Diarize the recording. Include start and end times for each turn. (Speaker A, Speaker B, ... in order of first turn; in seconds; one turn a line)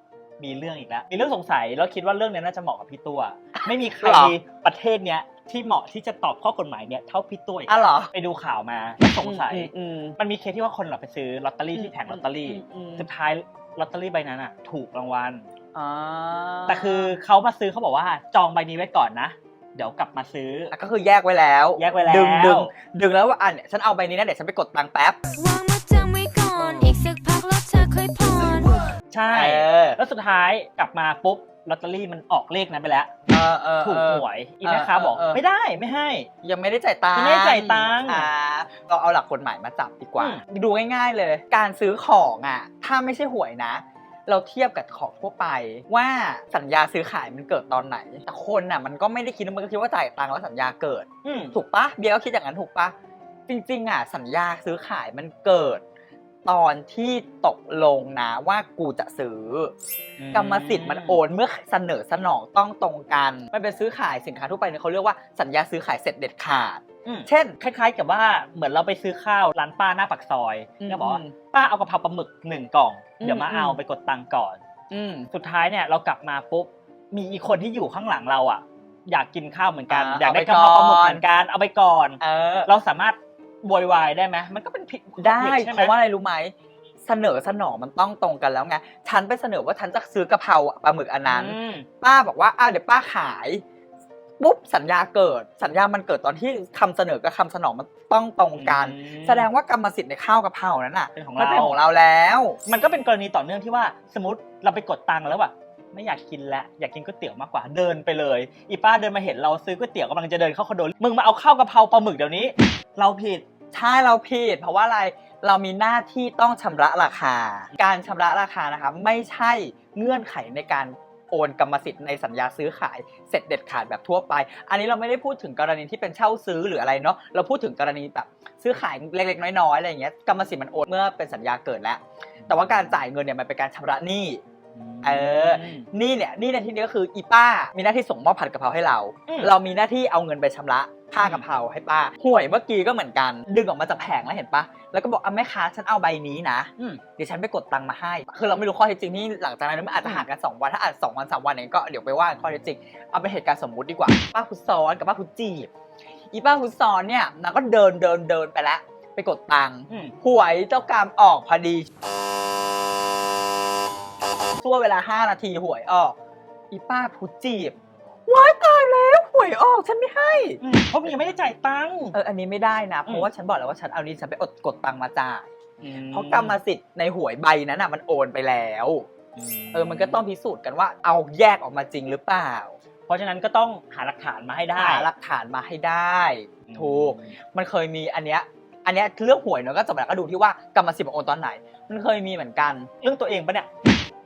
Speaker A: 0.4-15.5
Speaker B: 4.0-4.4
Speaker B: 7.7-8.1
Speaker B: 9.2-10.2
Speaker B: 11.8-13.1
Speaker B: 15.7-17.1
Speaker A: 16.7-20.7
Speaker B: 20.7-25.2
Speaker A: 21.8-22.7
Speaker C: 25.3-28.8
Speaker A: 29.1-33.2
Speaker B: 29.3-30.0
Speaker B: 33.3-35.4
Speaker A: 33.8-36.3
Speaker B: 36.4-52.9
Speaker A: 37.1-38.3
Speaker A: 51.2-51.5
Speaker B: 53.5-55.8
Speaker B: 56.5-59.7
Speaker A: 60.2-61.2
Speaker B: 60.3-67.6
Speaker A: 67.0-74.6
Speaker B: 70.8-71.3
Speaker B: 73.2-73.8
Speaker B: 74.9-75.3
Speaker A: 75.3-85.9
Speaker B: 79.9-81.2
Speaker B: 82.2-82.7
Speaker B: 85.2-93.6
Speaker A: 91.3-91.9
Speaker B: 94.4-102.6
Speaker A: 98.5-99.5
Speaker A: 101.2-101.8
Speaker A: 102.7-113.5
Speaker B: 113.7-134.4
Speaker A: 132.5-132.9
Speaker A: 134.8-135.9
Speaker B: 135.0-155.7
Speaker A: 141.2-141.5
Speaker B: 156.3-161.9
Speaker A: 159.9-160.2
Speaker B: 164.6-166.2
Speaker B: 166.7-167.8
Speaker B: 168.3-170.6
Speaker A: 170.6-172.2
Speaker B: 172.1-175.5
Speaker A: 175.8-176.6
Speaker B: 176.1-179.1
Speaker A: 179.4-180.2
Speaker B: 179.7-182.8
Speaker A: 183.1-185.1
Speaker B: 184.8-192.9
Speaker A: 186.7-187.3
Speaker A: 193.0-193.7